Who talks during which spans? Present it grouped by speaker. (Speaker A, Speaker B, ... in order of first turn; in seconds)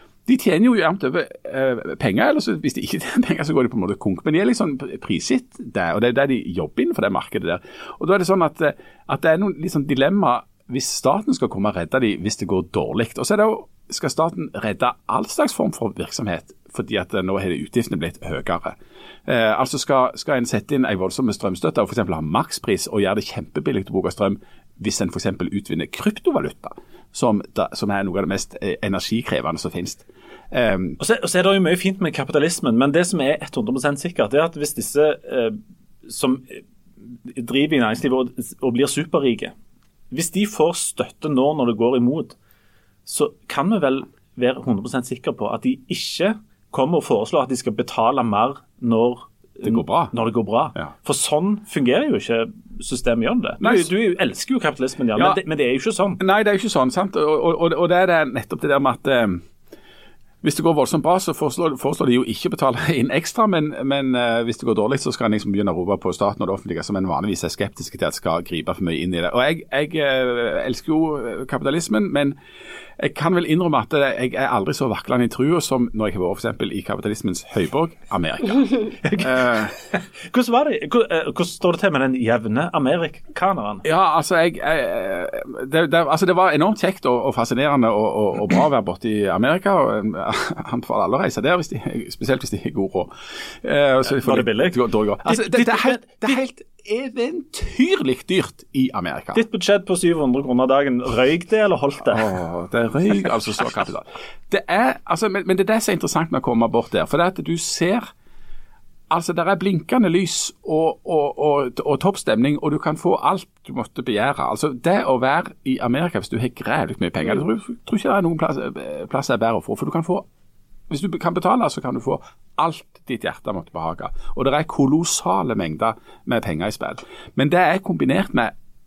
Speaker A: 0.2-31.0, 49.6-50.1, 53.6-53.9, 56.2-59.4, 60.4-72.4, 73.0-79.8, 83.8-99.4, 102.1-108.1, 109.1-120.2, 120.9-128.5
Speaker B: 31.0-36.6, 37.2-39.5, 40.1-42.4, 43.0-56.2, 79.0-83.8, 94.1-96.4, 99.3-102.3